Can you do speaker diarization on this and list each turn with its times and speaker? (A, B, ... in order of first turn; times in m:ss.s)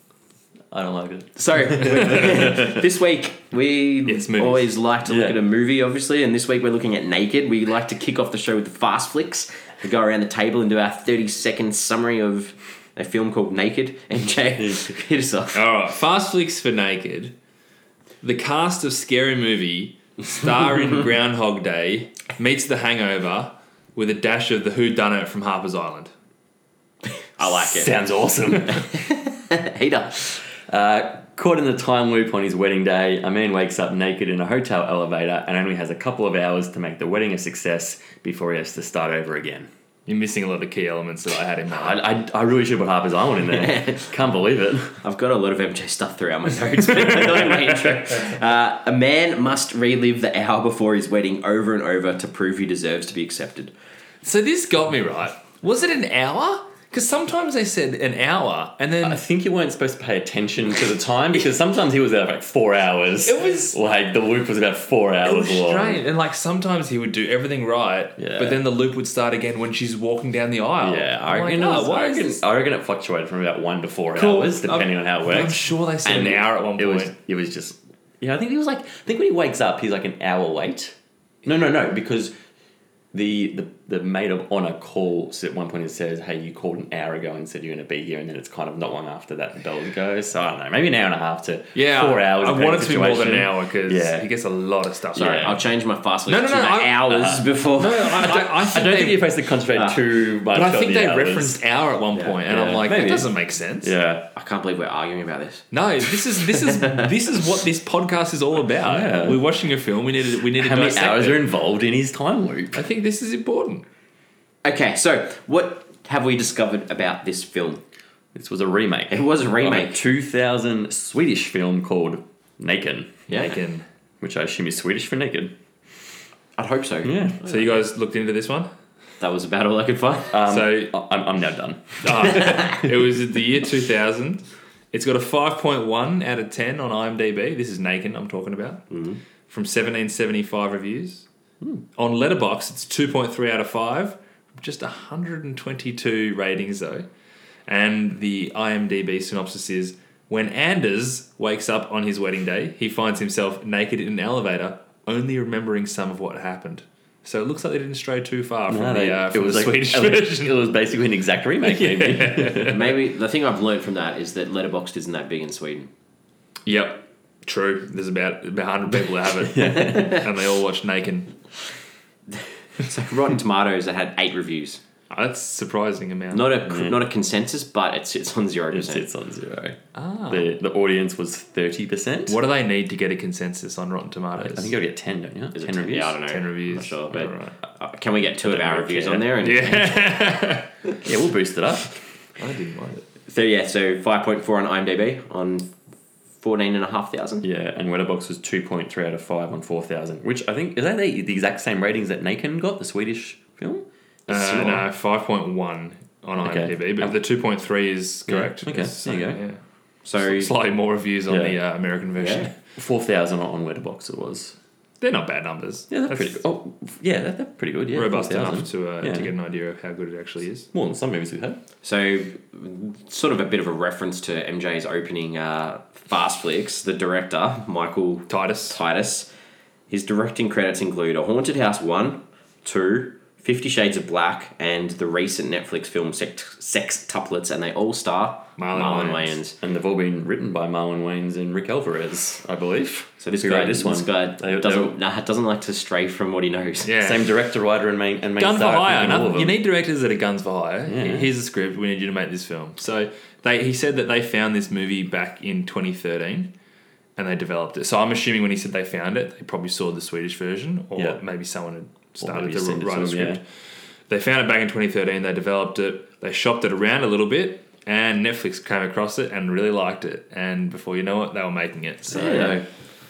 0:00.7-0:02.8 A
0:01.4-0:15.6 B
0:01.9-0:02.3 C
0:04.0-0:04.7 C
0:05.0-0:05.4 A
0:15.5-0:17.3 C
0:18.2-0:26.1 C
0:27.4-0:28.0 B
0:27.4-0:28.9 A
0:28.9-0:30.4 B
0:30.6-0:39.7 A
0:40.1-0:42.0 C
0:41.7-0:45.0 A
0:43.6-0:44.0 B
0:45.0-0:53.7 B
0:54.2-0:59.2 C
0:59.0-1:06.0 A
1:03.2-1:03.8 C
1:05.2-1:12.4 C
1:08.2-1:08.6 A
1:10.8-1:22.3 A
1:14.1-1:17.1 C
1:23.1-1:34.3 A
1:31.7-1:35.6 C
1:35.1-1:35.6 A
1:35.2-1:38.4 B
1:36.3-1:39.2 C
1:37.1-1:37.4 A
1:38.2-1:41.6 A
1:40.5-1:43.9 C
1:42.5-1:44.3 A
1:44.3-1:45.6 B
1:45.7-1:51.4 C
1:46.6-1:47.0 B
1:48.8-1:49.4 A
1:50.5-1:52.8 A
1:52.7-1:53.8 C
1:54.6-1:57.8 B
1:58.3-2:03.3 A
1:59.1-2:00.0 B
2:03.3-2:03.8 C
2:03.3-2:03.6 B
2:04.2-2:05.5 A
2:06.6-2:07.6 B
2:07.0-2:07.4 A
2:07.4-2:08.7 C
2:09.2-2:10.3 B
2:10.3-2:12.5 A
2:10.4-2:10.9 C
2:12.0-2:18.8 C
2:18.9-2:19.2 B
2:19.5-2:21.2 C
2:22.0-2:27.1 C
2:27.7-2:40.6 C
2:38.7-2:42.8 A
2:41.6-2:42.8 C
2:42.6-2:45.9 B
2:46.6-2:51.4 C
2:48.9-2:50.2 A
2:52.3-2:54.8 B
2:55.1-2:56.6 C
2:56.3-2:59.1 B
2:56.7-2:57.0 A
2:58.7-2:59.8 A
2:59.9-3:00.5 C
3:00.3-3:02.4 A
3:02.3-3:04.7 C
3:04.4-3:06.2 A
3:05.5-3:10.0 B
3:06.3-3:07.6 C
3:08.4-3:09.3 A
3:09.4-3:10.7 C
3:11.0-3:12.0 A
3:12.4-3:13.0 C
3:13.3-3:15.7 B
3:16.4-3:17.4 B
3:17.4-3:24.8 A
3:24.3-3:29.6 C
3:26.4-3:27.1 A
3:28.3-3:29.4 A
3:30.0-3:30.5 B
3:30.1-3:32.5 C
3:31.3-3:31.6 A
3:32.2-3:32.5 B
3:32.8-3:34.5 A
3:35.0-3:36.4 C
3:35.9-3:39.3 A
3:37.9-3:40.7 C
3:40.7-3:41.6 A
3:41.8-3:49.3 B
3:48.3-3:48.8 C
3:49.9-3:59.6 B
3:58.6-3:59.4 C
3:59.6-4:04.9 A
4:03.2-4:06.9 B
4:06.8-4:07.3 C
4:07.0-4:09.6 A
4:08.4-4:16.5 C
4:10.9-4:11.3 A
4:17.2-4:23.4 C
4:22.2-4:23.4 A
4:24.1-4:32.6 C
4:32.1-4:32.6 A
4:32.2-4:32.6 B